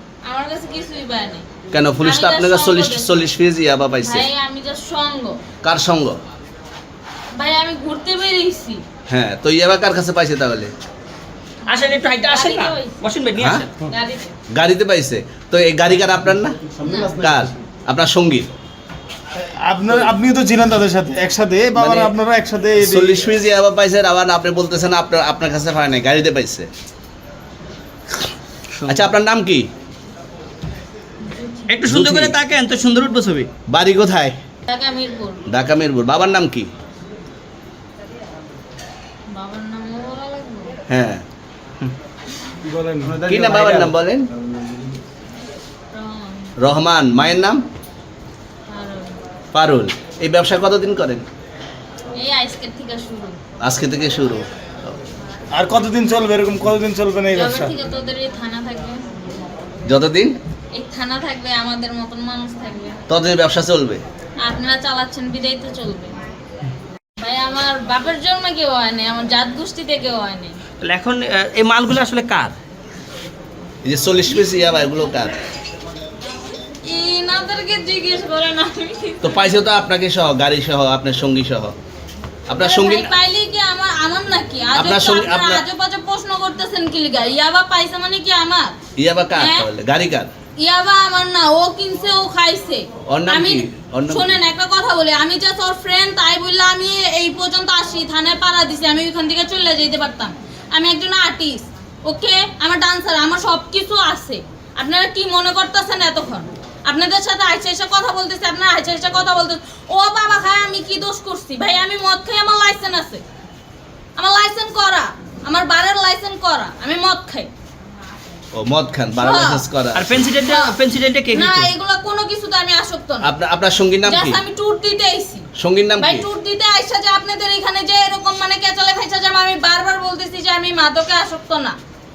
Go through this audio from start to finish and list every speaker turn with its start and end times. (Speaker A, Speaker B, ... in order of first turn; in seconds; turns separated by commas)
Speaker A: 0.2-1.5, Speaker B: 1.7-4.3, Speaker A: 2.0-3.1, Speaker A: 4.0-5.4, Speaker B: 5.6-6.2, Speaker A: 7.4-8.8, Speaker B: 9.1-10.7, Speaker C: 11.7-13.7, Speaker A: 12.1-13.1, Speaker B: 13.4-13.7, Speaker A: 13.8-14.3, Speaker B: 14.5-16.6, Speaker D: 16.8-17.3, Speaker A: 16.8-17.2, Speaker B: 17.2-18.5, Speaker D: 19.4-23.2, Speaker B: 21.8-22.1, Speaker B: 22.8-26.7, Speaker C: 28.8-29.1, Speaker B: 28.9-29.7, Speaker A: 31.2-31.7, Speaker C: 31.7-33.5, Speaker B: 31.9-32.4, Speaker B: 33.7-34.4, Speaker A: 34.7-35.4, Speaker B: 35.5-36.7, Speaker A: 39.3-40.8, Speaker B: 40.9-41.2, Speaker D: 42.6-43.2, Speaker C: 43.0-44.0, Speaker B: 43.3-44.3, Speaker A: 45.9-46.5, Speaker B: 46.6-47.6, Speaker A: 48.7-49.2, Speaker B: 49.5-51.3, Speaker A: 52.1-53.4, Speaker B: 53.6-54.5, Speaker D: 55.5-57.7, Speaker A: 57.3-59.0, Speaker B: 59.9-60.4, Speaker A: 60.7-63.0, Speaker B: 63.1-64.0, Speaker A: 64.4-66.2, Speaker A: 67.2-70.6, Speaker C: 70.8-72.5, Speaker B: 73.8-75.4, Speaker A: 76.7-79.6, Speaker B: 79.2-81.8, Speaker B: 82.5-83.1, Speaker A: 82.5-88.8, Speaker B: 84.8-85.6, Speaker B: 89.0-90.3, Speaker A: 89.3-89.7, Speaker A: 90.6-113.2, Speaker B: 93.1-94.4, Speaker A: 114.2-117.5, Speaker B: 118.5-120.1, Speaker A: 119.2-119.6, Speaker C: 119.9-121.7, Speaker A: 121.3-123.3, Speaker B: 123.2-124.4, Speaker A: 124.1-125.5, Speaker B: 125.6-126.3, Speaker A: 126.0-131.8